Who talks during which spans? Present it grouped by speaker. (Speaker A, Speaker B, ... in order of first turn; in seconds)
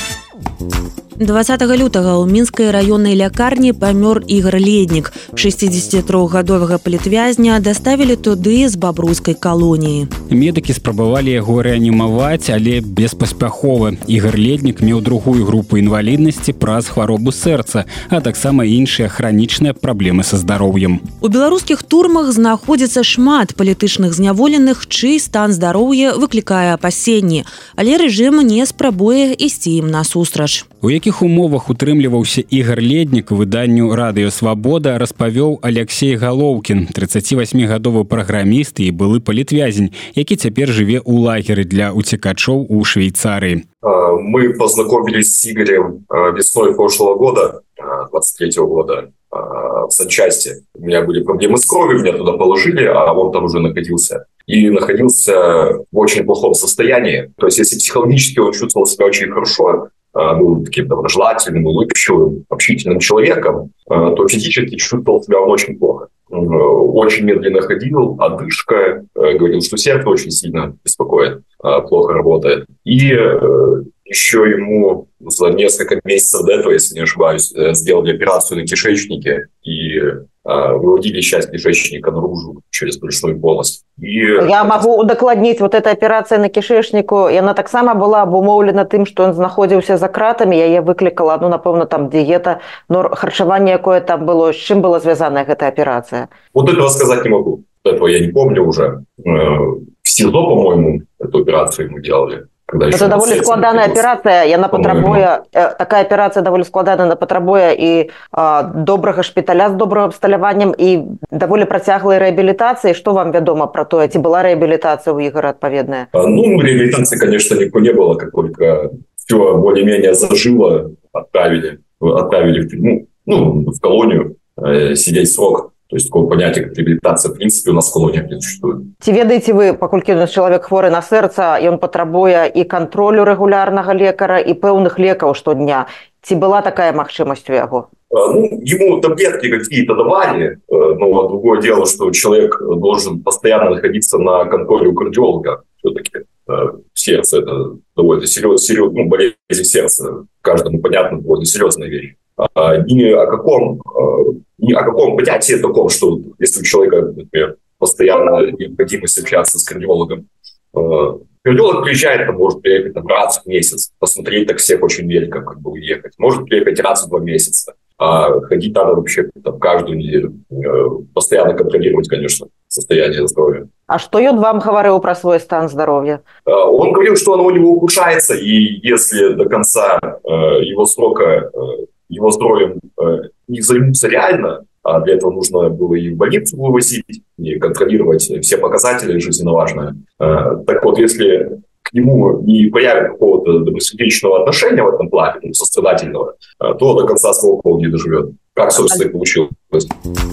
Speaker A: 1.2-10.1, 21.2-30.7
Speaker B: 10.3-21.1, 30.8-43.6
Speaker C: 43.8-84.9, 96.5-104.1, 104.7-105.3, 116.1-128.9, 138.1-173.7, 176.5-199.9
Speaker D: 84.4-96.3, 102.9-116.1, 129.0-137.9, 173.9-176.2